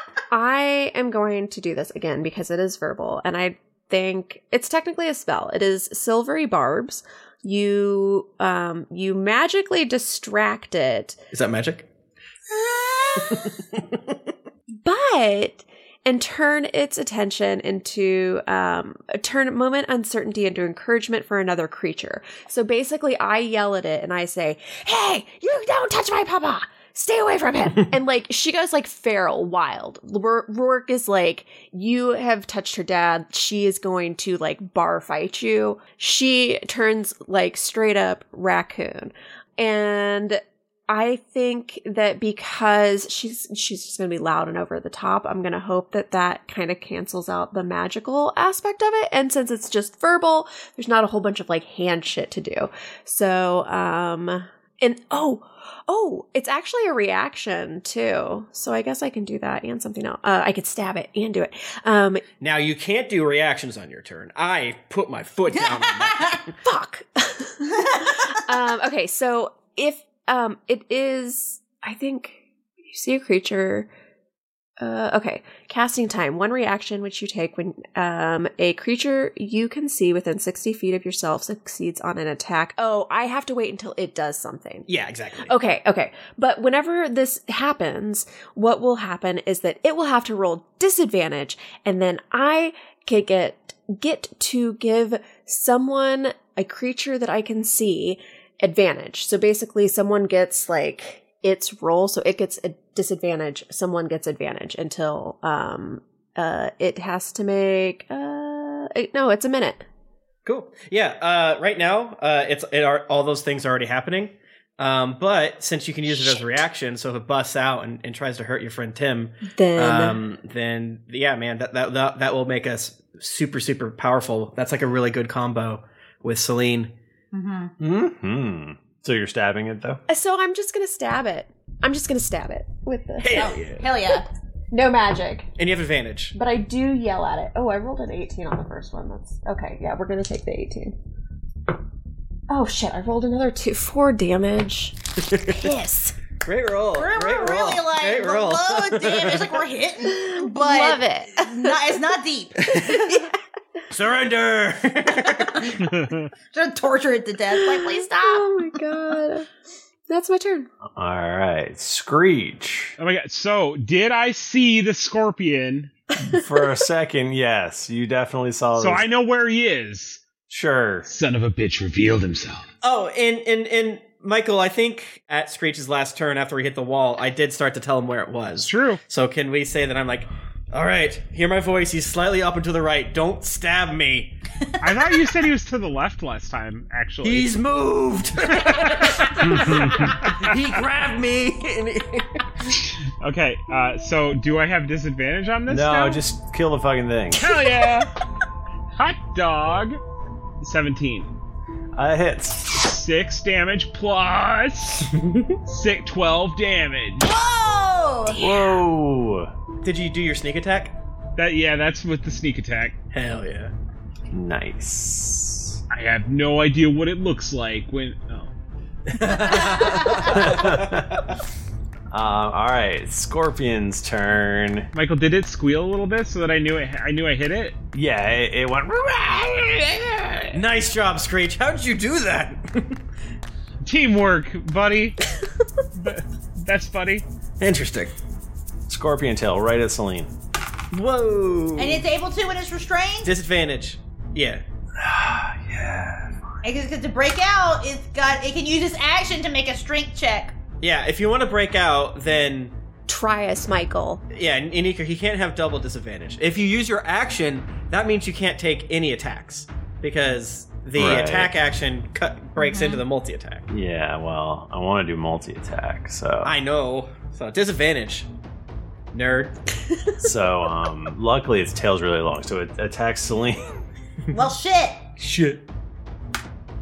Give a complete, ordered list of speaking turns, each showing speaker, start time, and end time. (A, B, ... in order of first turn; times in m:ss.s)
0:00.3-0:11.2 A
0:11.3-0:11.9 B
0:12.5-0:13.4 C
0:14.8-1:02.2 A
1:02.4-1:06.3 B
1:05.5-1:06.4 C
1:06.6-1:13.9 A
1:14.8-1:24.9 A
1:24.9-1:25.6 B
1:25.4-1:49.8 A
1:50.4-2:06.9 B
1:59.5-2:00.2 A
2:07.3-2:07.7 C
2:07.8-2:10.0 D
2:10.1-2:13.6 A
2:13.2-2:13.9 B
2:13.3-2:14.2 C
2:14.7-2:15.5 A
2:15.6-2:16.3 B
2:16.3-2:21.0 A
2:22.5-2:25.0 A
2:25.2-2:25.6 B
2:25.5-2:26.1 A
2:26.4-2:29.7 B
2:26.9-2:33.2 C
2:30.1-2:31.4 A
2:32.7-2:33.0 B
2:33.9-2:35.7 B
2:35.2-2:35.7 C
2:35.8-2:36.3 E
2:36.5-2:38.6 C
2:37.5-2:39.5 A
2:40.1-2:40.7 A
2:40.9-2:43.0 D
2:43.0-2:45.9 E
2:46.2-2:49.1 D
2:48.7-2:50.2 E
2:50.5-2:51.1 D
2:51.0-2:52.7 E
2:52.8-3:04.3 B
2:58.6-2:59.0 E
3:04.8-3:07.6 E
3:07.2-3:12.4 B
3:09.4-3:09.9 D
3:09.6-3:10.5 E
3:13.2-3:16.3 E
3:15.7-3:17.6 D
3:17.3-3:18.1 E
3:18.9-3:20.0 E
3:20.6-3:21.3 E
3:22.0-3:22.8 D
3:22.7-3:25.1 E
3:25.7-3:27.3 E
3:27.2-3:28.8 C
3:28.3-3:29.5 D
3:29.8-3:30.9 B
3:31.4-3:33.0 E
3:33.1-3:33.7 B
3:34.3-3:35.8 D
3:35.9-3:38.5 E
3:39.1-3:41.2 B
3:39.3-3:40.2 C
3:40.3-3:41.2 D
3:42.1-3:44.9 D
3:44.9-3:47.8 E
3:47.9-3:50.6 D
3:50.5-3:53.0 B
3:53.8-3:55.2 E
3:56.0-3:57.2 E
3:57.6-3:58.1 B
3:58.9-4:00.3 D
4:00.9-4:02.0 B
4:01.8-4:03.3 C
4:03.2-4:04.6 B
4:05.0-4:06.4 D
4:06.6-4:10.6 C
4:10.8-4:12.7 B
4:13.1-4:14.2 A
4:14.3-4:23.6 B
4:21.0-4:21.5 D
4:22.6-4:23.0 C
4:23.7-4:26.5 D
4:26.4-4:28.3 B
4:29.1-4:29.6 B
4:30.2-4:33.7 D
4:34.3-4:35.0 C
4:35.2-4:35.6 B